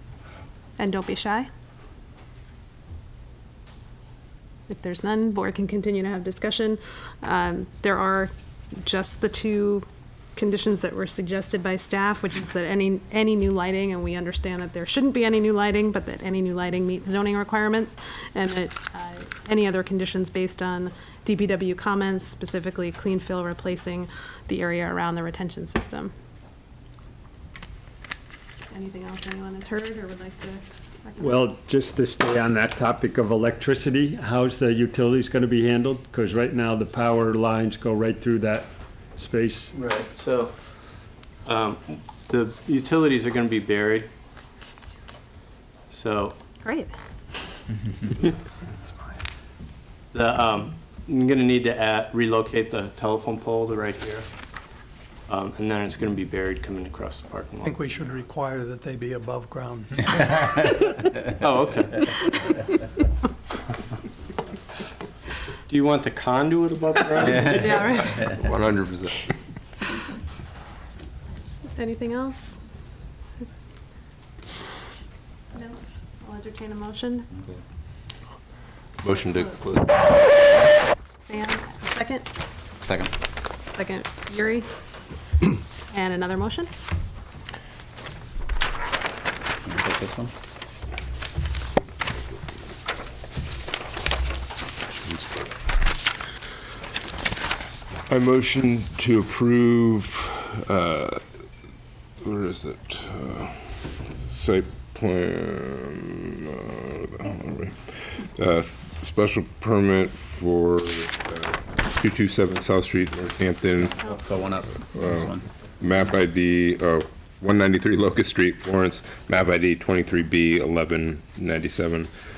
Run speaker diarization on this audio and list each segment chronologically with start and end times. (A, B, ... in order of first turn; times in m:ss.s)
0:00.8-0:01.5 A
0:04.7-0:26.1 A
0:28.7-0:31.4 A
0:31.2-0:39.8 B
0:39.7-0:40.5 C
0:41.4-0:44.1 C
0:45.9-0:46.3 C
0:46.6-0:46.9 A
0:50.1-0:54.3 C
0:55.3-0:57.8 C
0:57.6-1:00.5 D
1:01.3-1:02.3 C
1:05.7-1:08.0 C
1:07.4-1:08.4 A
1:08.1-1:09.2 E
1:11.8-1:12.5 A
1:15.5-1:17.3 A
1:19.0-1:20.0 E
1:21.2-1:22.2 A
1:22.8-1:23.1 F
1:23.8-1:25.0 A
1:25.9-1:26.7 A
1:29.6-1:30.3 F
1:35.0-1:35.5 E
1:38.1-1:41.2 E
1:42.2-1:54.0 E
1:53.8-1:55.4 F
1:54.9-2:02.1 E